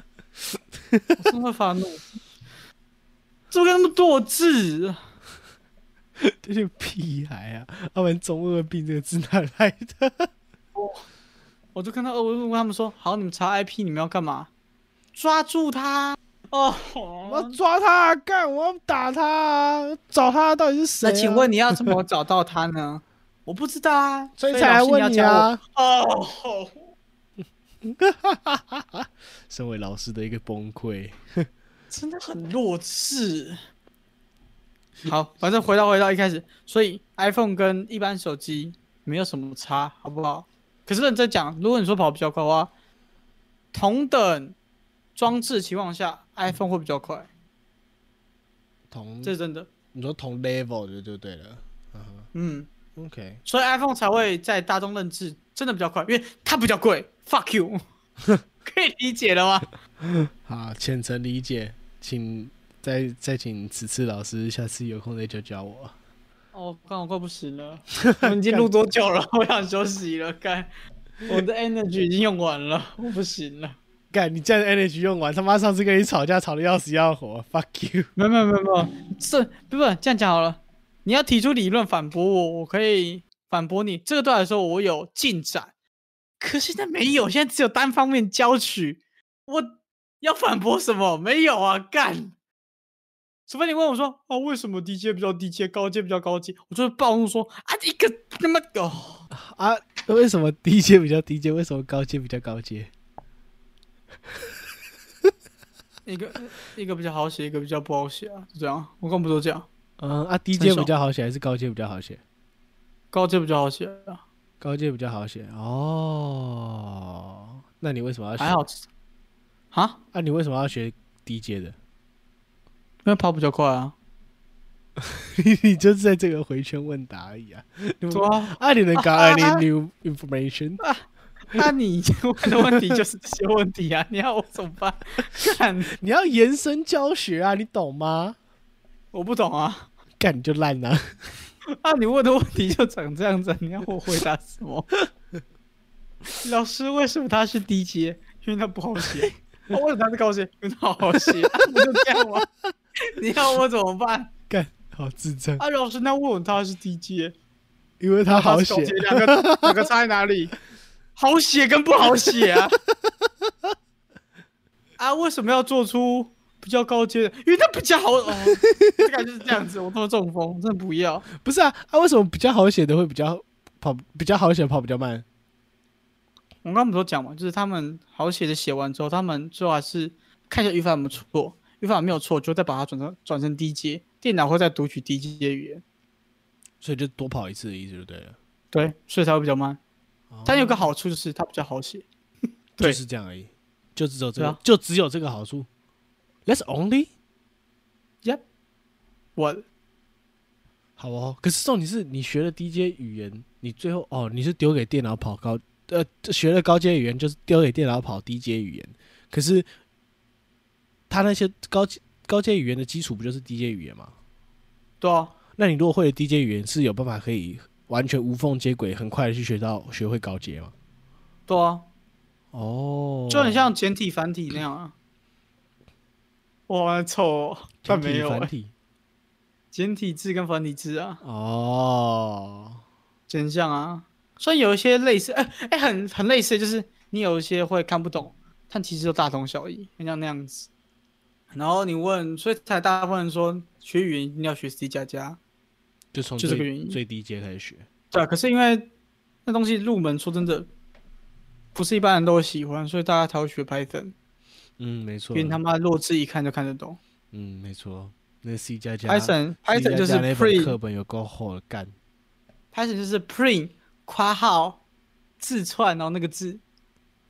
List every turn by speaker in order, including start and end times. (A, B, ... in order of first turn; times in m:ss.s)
0:00.9-0:01.2 A
0:01.2-0:02.1 B
0:03.5-0:05.0 B
0:06.2-0:10.3 A
0:10.7-0:11.0 B
0:11.7-0:14.5 B
0:15.1-0:17.6 B
0:17.2-0:21.9 A
0:21.0-0:26.8 B
0:24.4-0:25.6 A
0:27.8-0:31.5 A
0:31.9-0:33.6 B
0:35.0-0:42.7 B
0:43.7-0:44.6 B
0:45.2-0:47.3 B
0:48.9-0:49.3 A
0:49.2-0:49.7 B
0:49.9-0:52.3 A
0:52.3-0:52.7 B
0:53.0-0:53.4 A
0:53.4-0:57.8 B
0:58.6-0:59.7 B
1:00.0-1:05.9 A
1:06.5-1:10.7 B
1:08.0-1:08.7 A
1:11.2-1:13.8 B
1:14.1-1:18.1 A
1:18.2-1:25.7 B
1:26.4-1:32.3 B
1:33.5-1:39.2 B
1:39.3-1:42.9 A
1:46.0-1:49.7 B
1:50.0-1:52.2 A
1:50.6-1:50.9 B
1:53.1-1:54.2 B
1:54.6-1:58.6 A
1:58.4-1:58.8 B
1:59.7-2:00.0 B
2:00.1-2:01.8 A
2:03.0-2:03.9 B
2:05.0-2:10.8 A
2:08.1-2:09.6 B
2:11.5-2:15.9 B
2:12.6-2:13.0 A
2:15.9-2:18.4 A
2:19.1-2:19.9 B
2:20.2-2:21.1 A
2:21.7-2:24.9 B
2:26.4-2:32.5 B
2:31.1-2:31.8 A
2:33.1-2:34.3 B
2:34.5-2:35.6 A
2:35.6-2:37.3 B
2:38.0-2:39.8 A
2:38.3-2:40.5 B
2:41.2-2:42.8 B
2:42.9-2:43.7 A
2:45.0-2:51.2 B
2:48.6-2:49.0 A
2:51.4-2:55.2 A
2:56.6-3:05.8 B
3:06.8-3:08.4 A
3:08.7-3:09.8 B
3:10.3-3:10.8 A
3:10.4-3:12.0 B
3:12.8-3:15.7 A
3:16.4-3:17.1 A
3:19.4-3:19.6 B
3:21.0-3:29.7 A
3:31.1-3:34.1 A
3:35.0-3:35.3 B
3:35.6-3:40.7 A
3:41.5-3:41.9 B
3:42.5-3:43.7 A
3:43.3-3:44.9 B
3:46.7-3:48.5 B
3:47.8-3:48.7 A
3:49.7-3:51.2 B
3:51.2-3:52.8 A
3:53.3-4:00.7 B
4:01.5-4:05.4 B
4:06.1-4:07.9 A
4:06.4-4:07.0 B
4:08.1-4:08.9 B
4:09.4-4:10.7 B
4:11.7-4:14.1 B
4:14.8-4:15.6 A
4:15.3-4:17.0 B
4:17.3-4:21.9 A
4:19.0-4:20.8 B
4:22.7-4:24.8 B
4:25.4-4:26.6 B